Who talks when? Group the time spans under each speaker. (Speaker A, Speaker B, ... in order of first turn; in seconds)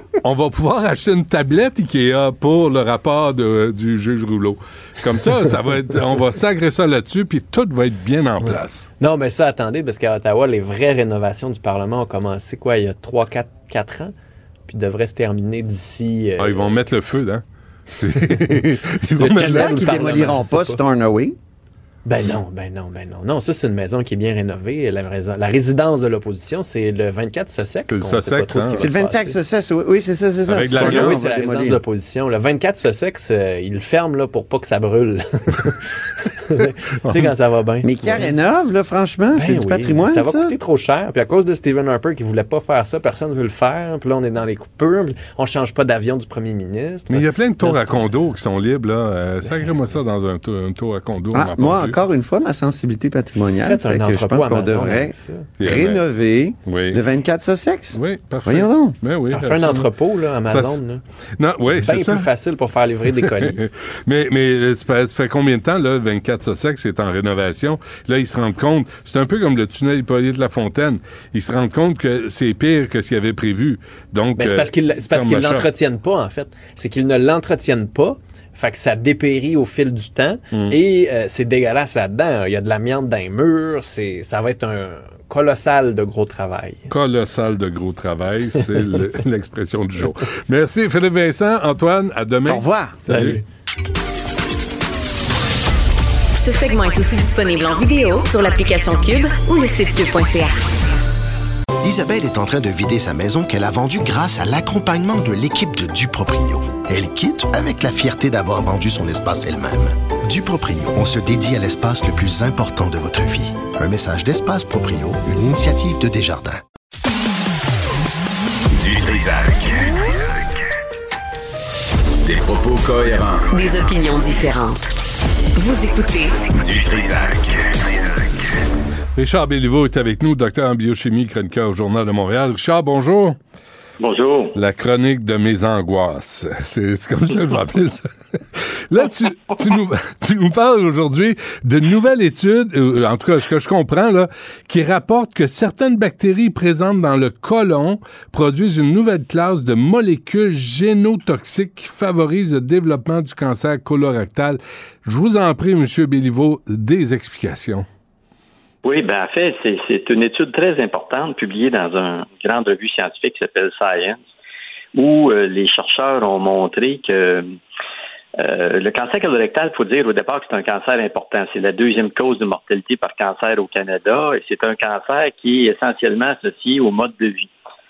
Speaker A: 0.2-8.9, 16.4-17.4, 18.0-20.3, 27.9-28.9, 30.5-31.2, 37.0-37.3, 47.1-52.0, 55.6-56.0, 56.6-57.0, 57.9-59.9, 60.4-60.8, 61.4-62.3, 63.1-75.7, 80.5-80.8, 86.9-93.4, 129.2-133.4, 134.5-157.9
Speaker B: 8.4-14.1, 14.7-16.8, 19.2-20.8, 22.1-29.4, 30.7-35.8, 36.5-38.4, 39.3-48.1, 49.4-49.9, 53.6-55.5, 59.3-61.0, 61.6-63.6, 74.4-86.9, 93.0-93.4
Speaker C: 19.2-21.4, 28.8-31.8, 37.9-40.5, 51.3-59.0, 92.5-93.0
Speaker D: 96.4-100.6, 123.5-124.8, 125.5-126.4
Speaker E: 101.8-116.6
Speaker F: 118.7-119.9, 122.2-123.5, 126.5-127.8
Speaker G: 134.0-134.5, 158.8-164.2, 164.9-167.5, 168.4-177.5